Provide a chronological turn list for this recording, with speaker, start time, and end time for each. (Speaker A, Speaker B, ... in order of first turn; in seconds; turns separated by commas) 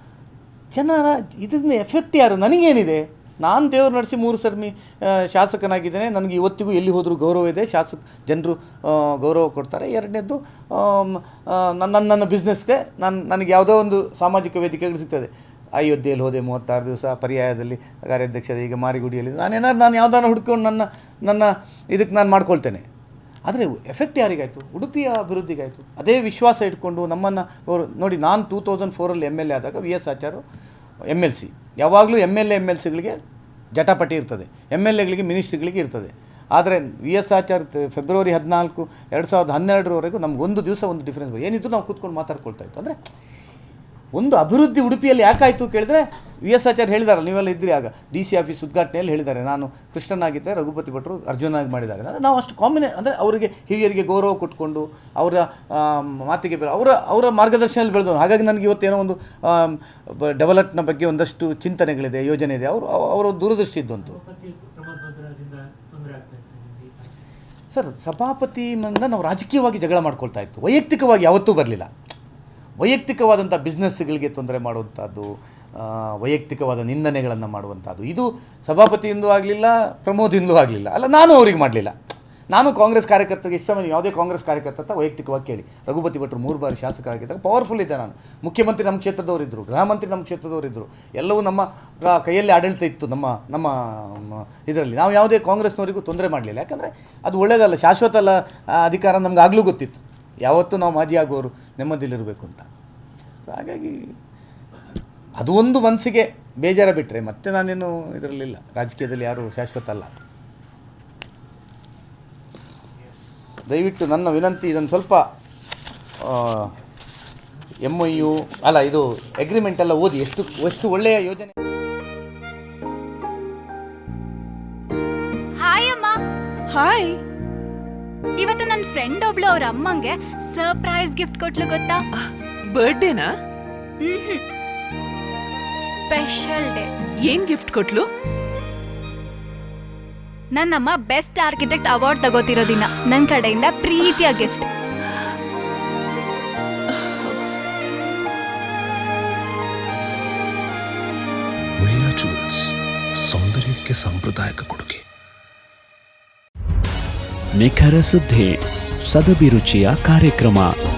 Speaker A: 0.7-22.8, Speaker A: 23.5-30.4, Speaker A: 31.1-33.2, Speaker A: 33.7-43.0, Speaker A: 44.1-64.2, Speaker B: 64.0-67.1, Speaker A: 67.7-71.9, Speaker A: 72.8-81.9, Speaker A: 82.5-102.7, Speaker A: 103.5-104.1, Speaker A: 105.4-110.1, Speaker A: 113.7-115.2, Speaker A: 116.2-116.7, Speaker A: 117.8-121.5, Speaker C: 125.6-126.1, Speaker D: 126.7-127.2, Speaker C: 128.4-132.0, Speaker D: 132.7-133.3, Speaker C: 134.0-134.4, Speaker C: 135.8-136.9, Speaker D: 137.2-138.1, Speaker C: 140.5-144.7, Speaker E: 151.8-155.0, Speaker F: 157.6-160.7